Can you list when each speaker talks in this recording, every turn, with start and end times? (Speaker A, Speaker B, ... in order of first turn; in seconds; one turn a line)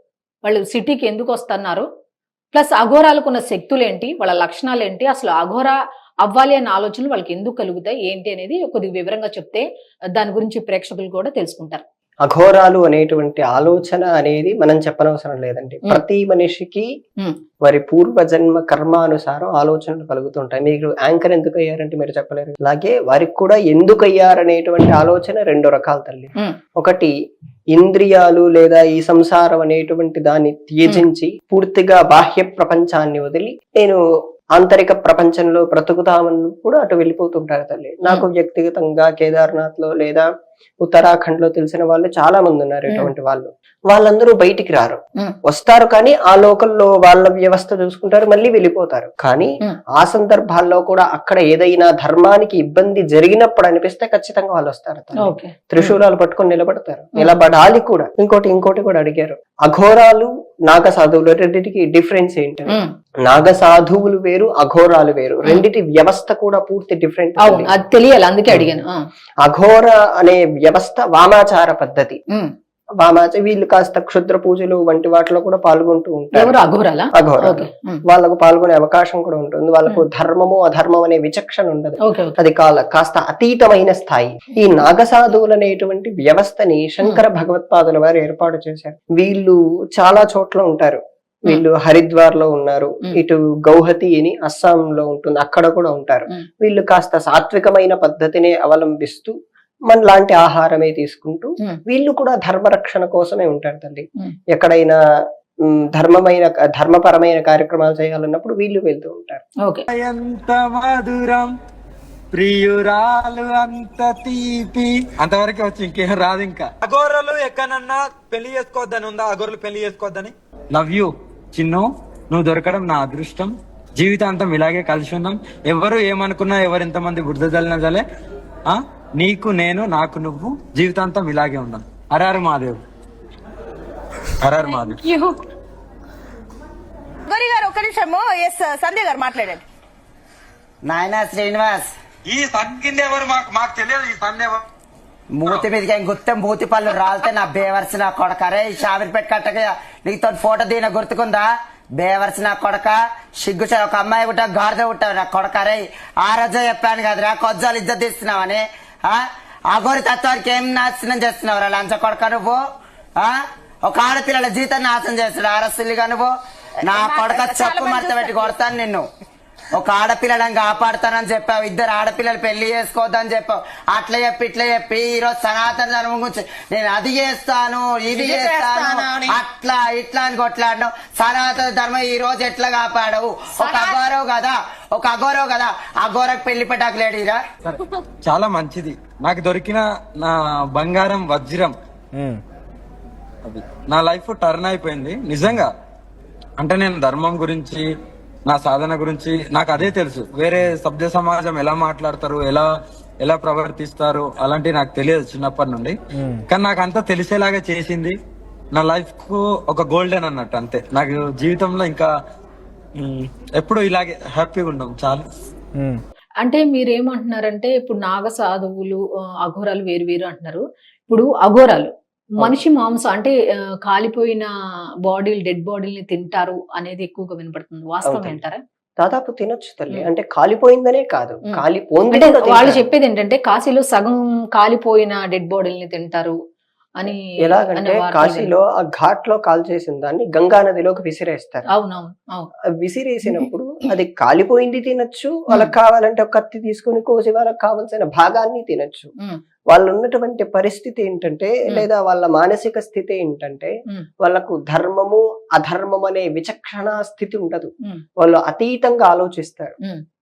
Speaker A: 0.4-1.9
Speaker A: 2.5-11.8
Speaker B: 12.2-16.9
Speaker B: 17.6-27.1
Speaker B: 27.7-34.0
Speaker B: 34.6-40.2
Speaker B: 40.8-67.7
Speaker A: 55.2-56.0
Speaker A: 67.4-69.0
Speaker B: 69.4-72.2
Speaker B: 73.0-76.6
Speaker A: 76.3-78.0
Speaker B: 77.2-99.3
Speaker A: 82.0-82.3
Speaker B: 99.9-105.0
Speaker B: 105.7-109.4
Speaker C: 109.9-111.5
Speaker C: 112.3-128.0
Speaker C: 128.7-132.8
Speaker C: 134.4-135.0
Speaker D: 134.7-135.3
Speaker D: 137.3-139.6
Speaker E: 140.8-141.9
Speaker C: 142.2-144.6
Speaker E: 145.3-162.6
Speaker E: 163.2-166.3
Speaker E: 166.8-169.1
Speaker D: 166.9-168.6
Speaker E: 169.7-187.4
Speaker D: 178.1-179.4
Speaker D: 183.6-184.0
Speaker C: 187.6-191.7
Speaker C: 193.4-195.7
Speaker C: 196.6-197.8
Speaker C: 198.5-202.7
Speaker C: 203.2-205.9
Speaker C: 206.5-208.1
Speaker C: 208.7-212.1
Speaker C: 213.0-215.2
Speaker A: 216.4-224.5
Speaker A: 225.1-228.6
Speaker B: 228.0-228.4
Speaker B: 229.0-232.8
Speaker A: 232.1-236.4
Speaker A: 237.0-238.5
Speaker B: 237.4-241.7
Speaker A: 241.7-242.5
Speaker B: 242.8-249.1
Speaker B: 249.7-259.8